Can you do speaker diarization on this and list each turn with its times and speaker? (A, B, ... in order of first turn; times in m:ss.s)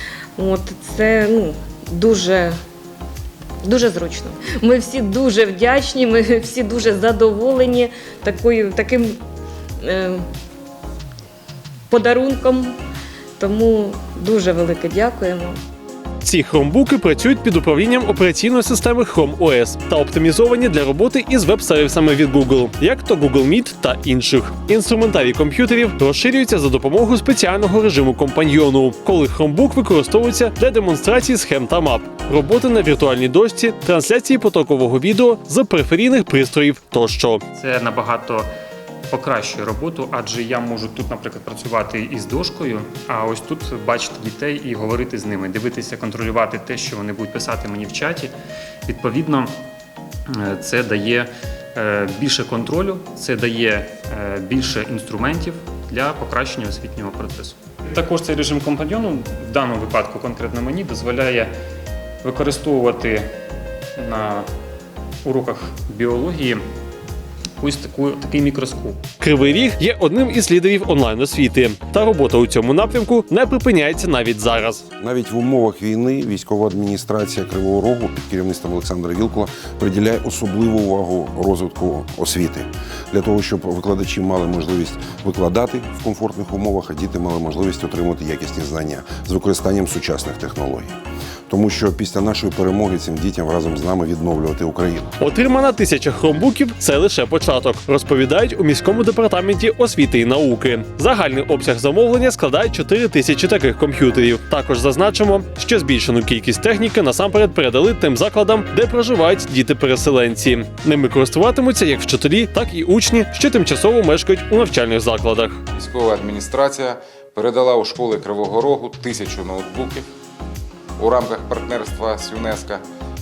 0:00.4-0:02.6 A
0:03.6-0:09.2 A
0:09.8-0:10.2 A
0:11.9-0:12.7 A
0:13.4-0:15.6 A
0:16.2-0:37.4 B
0:37.5-0:38.5 C
0:39.1-0:48.3 C
0:48.9-0:49.5 C
0:50.3-1:01.5 C
1:02.2-1:03.3 C
1:04.0-1:04.5 C
1:05.2-1:06.6 C
1:07.6-1:09.0 C
1:09.2-1:14.8 B
1:15.0-1:30.9 D
1:31.5-1:35.1 D
1:35.2-1:55.6 B
1:55.7-2:00.1 E
2:01.0-2:02.8 E